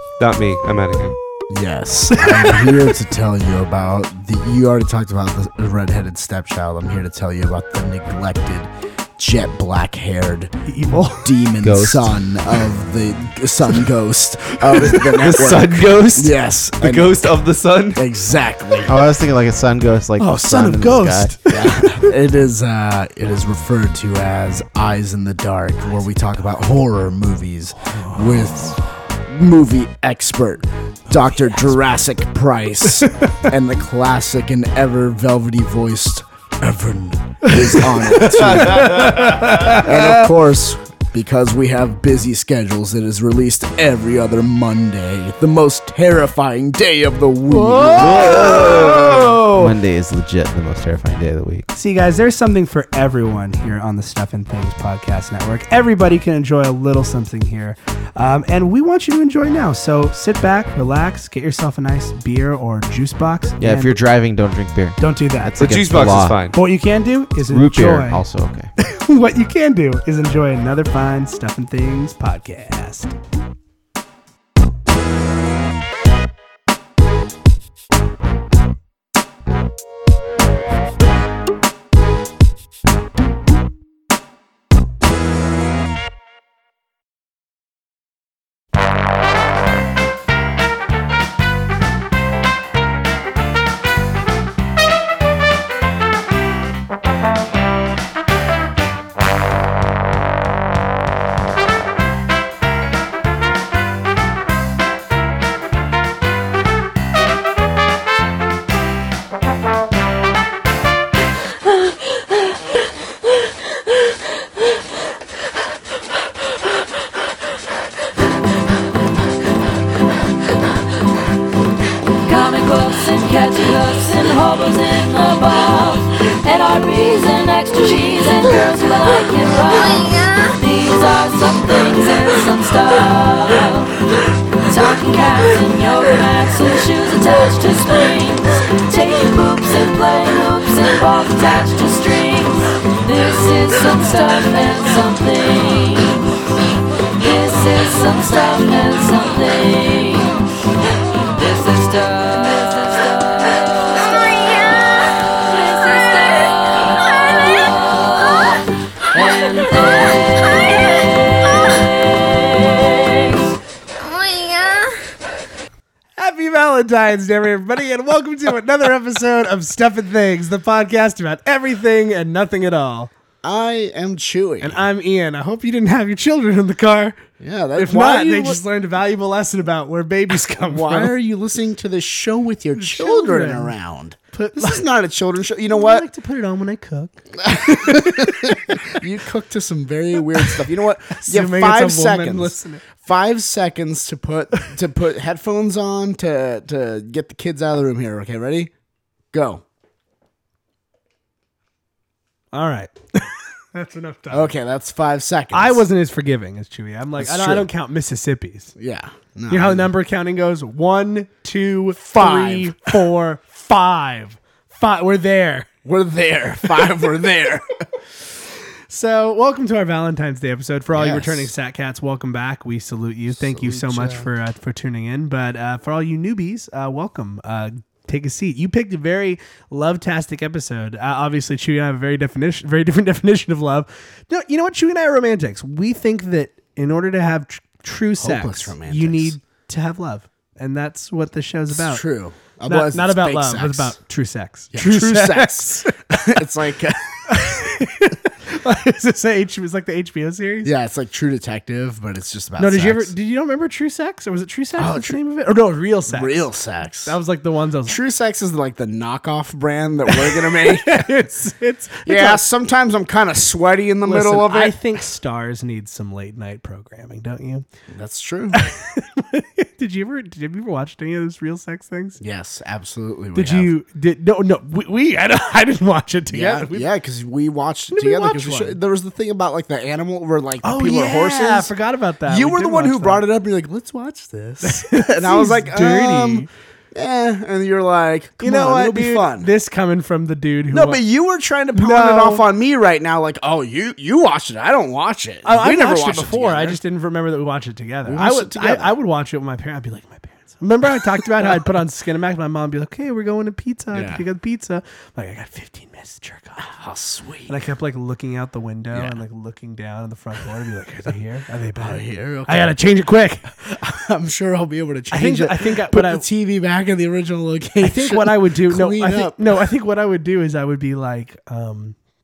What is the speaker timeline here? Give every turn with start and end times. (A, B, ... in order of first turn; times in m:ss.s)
0:00.2-0:01.2 A
0:01.5-0:10.6 B
0:02.2-0:02.9 C
0:10.6-0:11.3 C
0:11.2-0:17.2 B
0:11.6-0:12.2 D
0:14.7-0:15.0 C
0:14.9-0:18.0 A
0:18.0-0:19.0 B
0:18.9-0:21.4 D
0:20.2-0:22.1 C
0:21.5-0:48.7 B
0:27.9-0:28.8 C
0:33.1-0:33.5 C
0:37.4-0:40.3 C
0:47.5-0:49.7 C
0:47.9-0:51.7 D
0:51.7-1:04.0 C
1:03.6-1:06.4 D
1:05.0-1:05.6 C
1:05.6-1:06.6 A
1:06.5-1:08.2 C
1:07.4-1:08.7 D
1:08.8-1:13.2 C
2:02.2-2:14.0 E
2:14.6-2:26.4 E
2:27.2-2:30.4 E
2:31.3-2:34.6 E
2:35.4-2:43.3 E
2:46.2-2:53.1 C
2:53.4-2:54.8 B
2:54.6-2:57.2 C
2:57.4-2:58.6 B
2:57.8-3:01.1 C
3:00.7-3:06.1 B
3:02.8-3:03.8 C
3:04.3-3:04.9 C
3:05.7-3:09.0 C
3:07.4-3:18.7 B
3:10.4-3:12.8 C
3:19.3-3:19.6 B
3:22.5-3:24.5 C
3:24.3-3:25.8 B
3:25.5-3:28.7 C
3:27.2-3:27.7 B
3:28.8-3:29.9 B
3:29.5-3:35.7 C
3:32.0-3:32.7 B
3:35.8-3:37.8 B
3:38.9-4:02.0 C
3:40.9-3:41.5 B
3:43.3-3:44.3 B
3:58.2-3:59.4 B
4:01.7-4:04.0 B
4:02.7-4:06.4 C
4:04.7-4:07.2 B
4:07.3-4:10.7 C
4:10.6-4:13.1 B
4:12.6-4:16.5 C
4:14.8-4:15.2 B
4:16.1-4:17.2 B
4:17.0-4:18.0 C
4:17.9-4:21.1 B
4:20.1-4:22.4 C
4:22.1-4:24.8 B
4:24.0-4:27.6 C
4:27.9-4:28.6 B
4:28.5-4:32.2 C
4:32.2-4:33.7 B
4:33.4-4:36.9 C
4:36.3-4:41.7 B
4:37.9-4:38.8 C
4:40.6-4:43.2 C
4:42.3-4:49.5 B
4:44.6-4:46.5 C
4:48.4-4:51.0 C
4:50.7-4:56.8 B
4:51.8-4:52.4 C
4:55.4-5:06.7 C
4:58.1-4:58.9 B
5:03.9-5:04.2 B
5:06.6-5:07.6 B
5:07.5-5:13.7 C
5:08.9-5:09.2 B
5:11.8-5:12.8 B
5:13.7-5:19.6 B
5:15.1-5:16.3 C
5:17.8-5:22.0 C